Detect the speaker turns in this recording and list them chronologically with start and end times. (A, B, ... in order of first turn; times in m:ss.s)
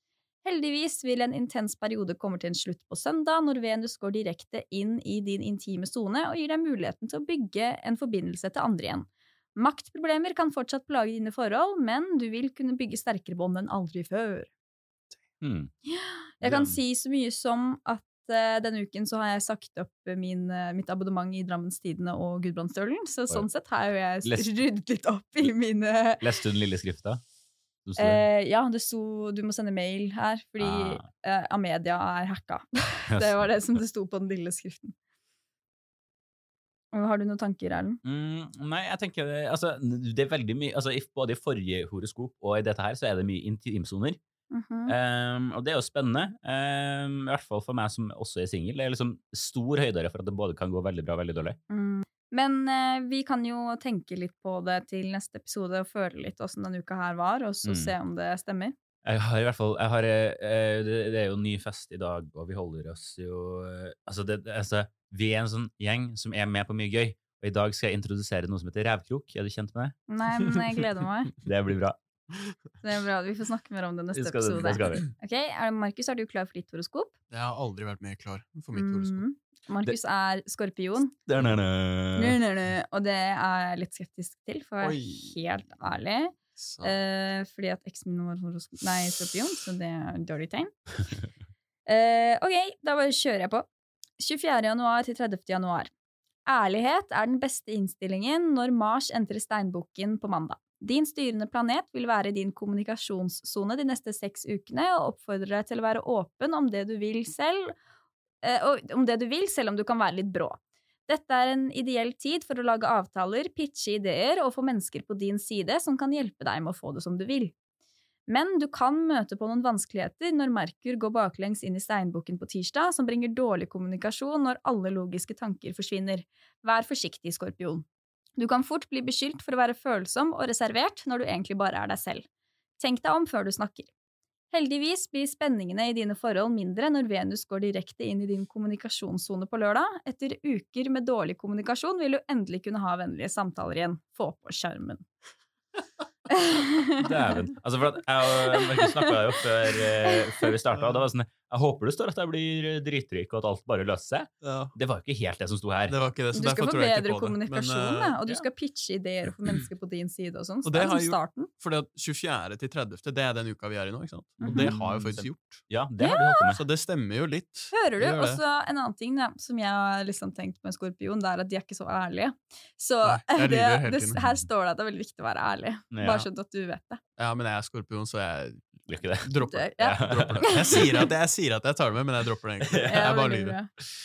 0:00.4-0:14.5 A
0:15.4-0:15.7 B
0:15.9-0:26.2 A
0:16.4-0:16.8 B
0:24.2-0:24.6 B
0:26.2-0:27.2 B
0:27.8-0:28.2 B
0:28.0-0:35.0 A
0:30.6-0:31.0 B
0:33.1-0:33.8 B
0:36.9-0:38.0 A
0:38.0-0:44.2 B
0:44.5-0:45.0 A
0:44.9-0:51.6 B
0:51.7-0:58.8 A
0:57.6-0:58.0 B
0:59.0-1:10.0 B
1:10.1-1:11.3 A
1:11.4-1:12.0 B
1:12.8-1:17.1 A
1:14.1-1:15.1 B
1:17.3-1:19.2 C
1:18.7-1:21.1 A
1:21.3-1:22.4 B
1:22.2-1:30.8 A
1:24.8-1:25.4 C
1:26.6-1:27.0 C
1:31.9-1:33.7 A
1:34.2-1:35.9 A
1:36.5-1:47.7 A
1:48.4-1:57.6 A
1:58.3-2:07.9 A
2:08.4-2:12.2 A
2:12.8-2:13.9 A
2:14.5-2:25.1 A
2:26.3-2:27.0 A
2:27.0-2:36.0 B
2:28.5-2:29.1 A
2:30.0-2:30.5 A
2:34.4-2:34.7 C
2:35.9-2:38.2 C
2:36.3-2:41.5 A
2:40.6-2:45.6 C
2:44.4-2:44.8 A
2:44.5-2:46.6 B
2:46.0-2:46.5 A
2:46.6-2:48.4 C
2:47.7-2:57.0 A
2:53.0-2:54.2 C
2:55.9-2:56.3 B
2:57.2-3:03.6 C
2:58.9-3:00.5 B
2:59.5-3:01.1 A
3:02.6-3:03.1 B
3:02.9-3:03.7 A